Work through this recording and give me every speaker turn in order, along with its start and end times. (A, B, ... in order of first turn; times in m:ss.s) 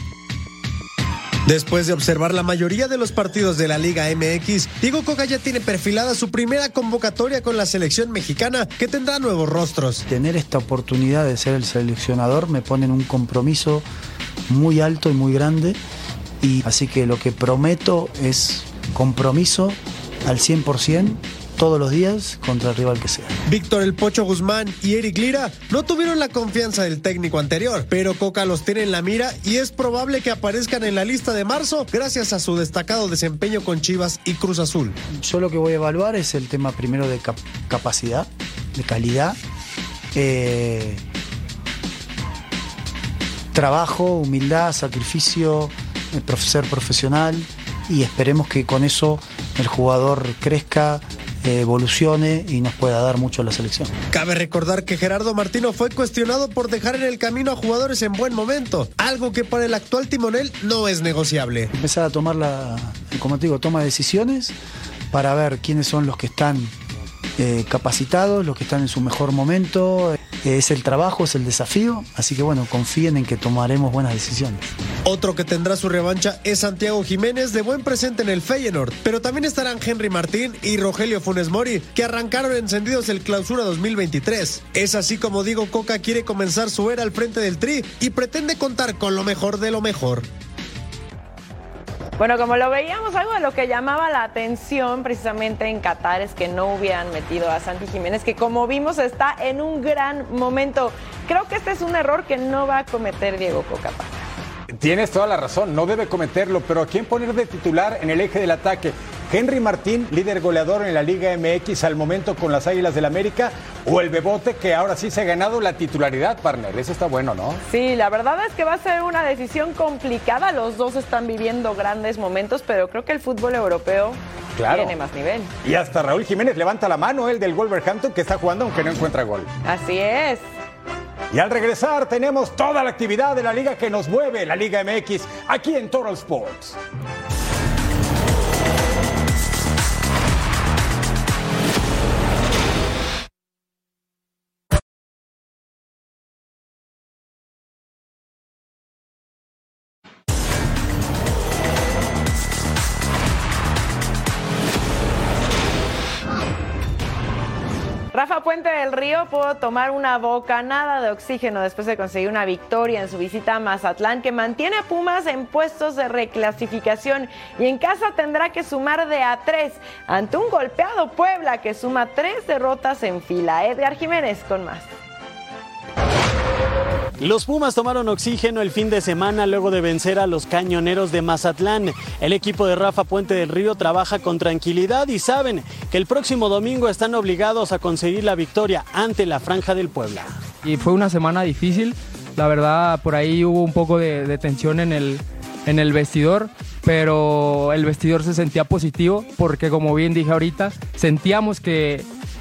0:01.5-0:10.0 A
0:10.1-0:13.9 B
0:14.5-0:15.8 B
0:16.4-0:23.4 B
0:23.5-0:35.0 A
0:35.1-0:39.4 B
0:40.1-0:41.0 B
0:43.5-0:53.9 B
0:54.1-1:01.7 A
1:01.7-1:04.5 B
1:05.1-1:06.7 B
1:07.4-1:14.7 B
1:15.0-1:30.3 A
1:32.2-1:44.1 C
1:44.8-1:57.6 D
1:57.7-2:05.5 C
2:04.6-2:05.0 D
2:05.6-2:09.5 D
2:09.6-2:10.4 C
2:11.3-2:16.8 D
2:38.1-2:54.9 C
2:57.2-3:10.4 E
3:10.6-3:22.1 F